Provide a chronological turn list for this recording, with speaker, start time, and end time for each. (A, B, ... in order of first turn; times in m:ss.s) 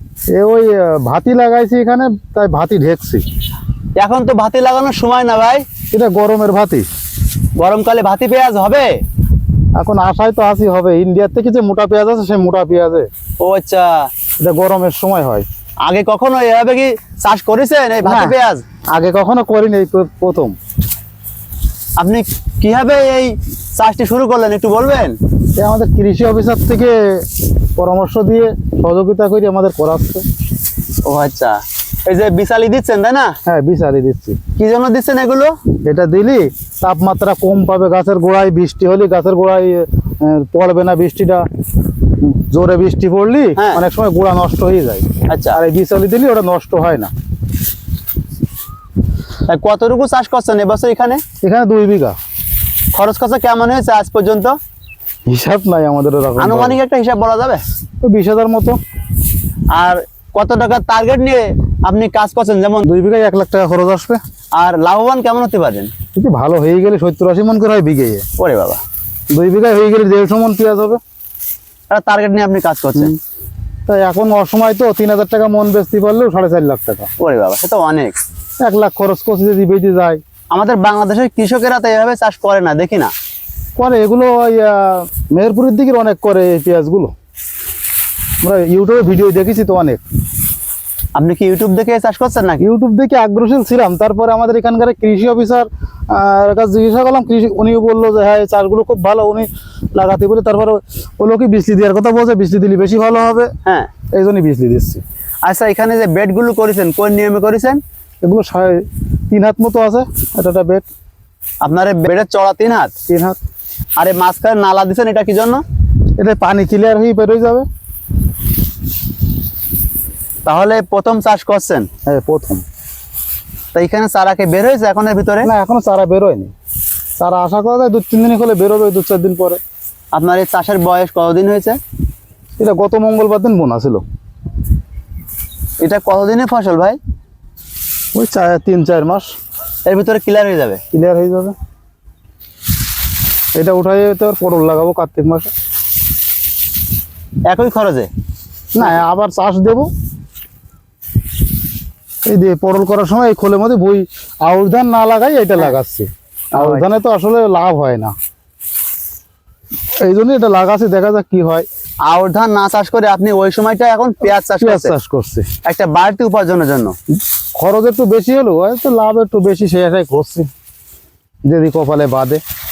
0:00.3-0:03.2 A
0:04.0-0:05.6 B
0:05.9-0:06.9 A
0:07.6-0:09.0 B
0:09.7-0:13.1 A
0:13.4-0:14.1 B
0:14.4-0:15.4 A
0:15.8-0:18.6 B
0:18.0-0:18.3 A
0:18.9-0:20.6 A
0:22.0-0:25.2 B
0:25.6-0:30.2 A
0:31.0-0:33.3 B
0:33.4-0:34.4 A
0:34.6-0:35.5 B
0:35.8-0:41.5 A
0:42.2-0:47.1 A
0:43.6-0:43.8 B
0:45.3-0:45.6 B
0:49.5-0:51.2 B
0:51.4-0:52.2 A
0:52.9-0:54.6 B
0:55.2-0:56.8 A
0:56.4-0:57.6 B
0:58.0-0:58.8 A
0:59.7-1:02.9 B
1:02.8-1:04.2 A
1:04.5-1:05.9 B
1:06.1-1:08.2 A
1:08.4-1:08.8 B
1:09.3-1:11.0 A
1:11.9-1:13.2 B
1:13.9-1:17.1 A
1:17.2-1:18.2 B
1:18.6-1:20.2 A
1:20.5-1:23.1 B
1:23.8-1:27.1 A
1:28.4-1:30.0 A
1:31.1-1:32.6 B
1:32.6-1:43.5 A
1:43.6-1:43.9 B
1:44.1-1:45.0 A
1:45.4-1:47.8 B
1:48.2-1:50.8 A
1:51.6-1:52.9 B
1:53.1-1:53.4 A
1:54.0-1:55.6 B
1:56.2-1:57.7 A
2:00.4-2:01.9 B
2:02.0-2:02.6 A
2:03.7-2:05.5 B
2:05.4-2:06.5 A
2:07.2-2:09.6 A
2:10.1-2:11.8 B
2:12.6-2:14.0 A
2:15.8-2:17.0 B
2:18.1-2:19.3 A
2:19.8-2:20.8 B
2:20.9-2:21.6 A
2:23.6-2:25.5 A
2:27.5-2:28.1 B
2:28.7-2:29.9 A
2:32.2-2:38.1 A
2:36.5-2:37.0 B
2:40.0-2:41.7 A
2:42.0-2:44.9 B
2:44.6-2:45.5 A
2:45.6-2:46.9 B
2:47.6-2:50.5 A
2:51.4-2:52.4 A